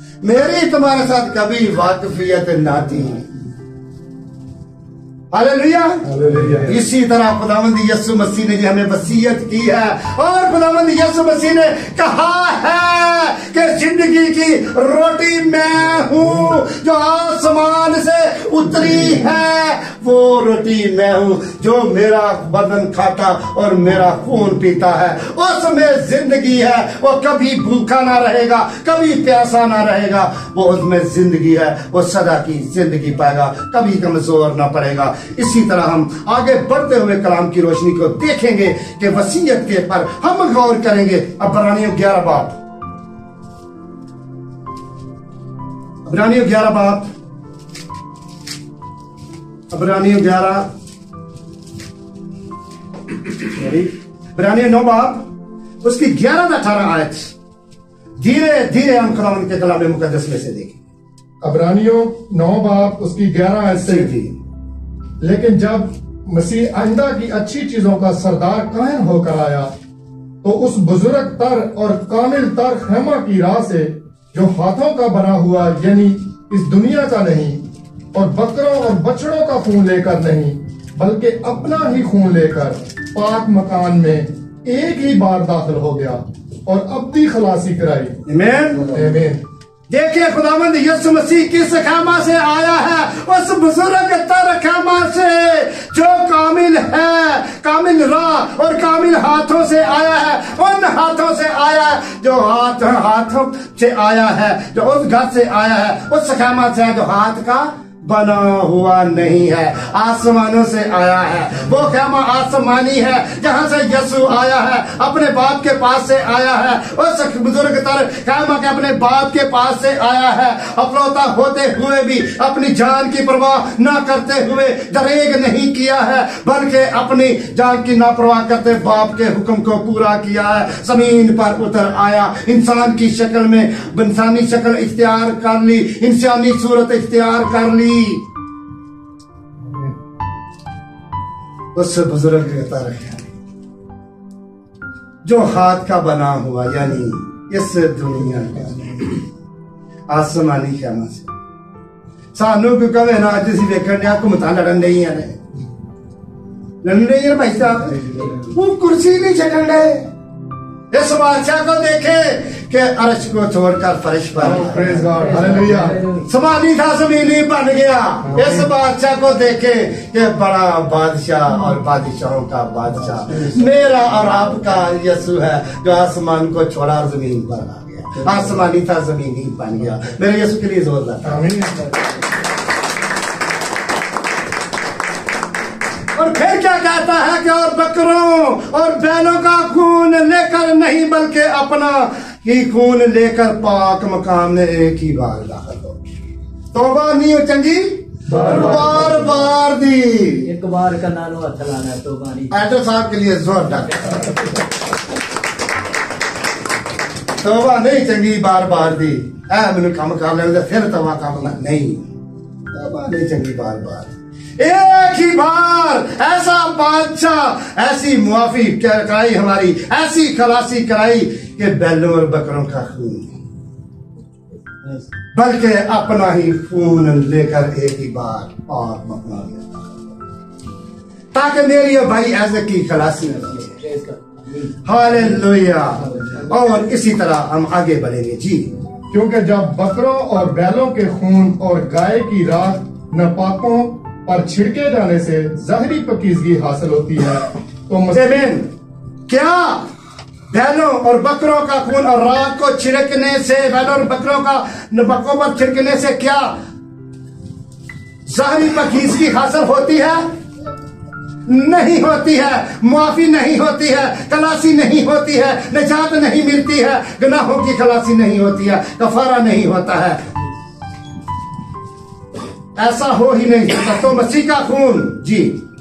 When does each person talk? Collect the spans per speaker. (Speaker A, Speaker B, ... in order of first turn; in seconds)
Speaker A: 0.2-3.3, 5.3-42.6, 46.0-47.1, 49.7-50.7, 54.4-55.3, 55.8-57.3, 58.2-60.8, 63.8-64.4, 88.3-88.9, 89.9-138.2, 141.8-143.3, 145.2-149.2, 150.1-151.3, 152.3-155.4, 156.8-160.1, 160.9-165.0, 166.2-181.4, 186.1-196.0, 196.7-200.5, 202.5-204.4, 207.4-212.1, 212.7-223.4, 225.3-229.9, 231.3-233.8, 234.8-238.7, 248.2-248.7, 249.3-249.9, 250.5-256.6, 258.3-260.3, 261.5-270.3, 272.8-275.6
Speaker B: 6.1-6.8, 61.4-64.1, 65.2-69.7, 70.4-88.2, 88.9-89.4, 139.6-139.9, 164.4-166.0, 168.2-168.7, 181.2-182.0, 198.3-199.1, 239.1-248.5
Speaker C: 164.5-166.3, 200.4-202.5, 233.7-234.7, 236.1-236.5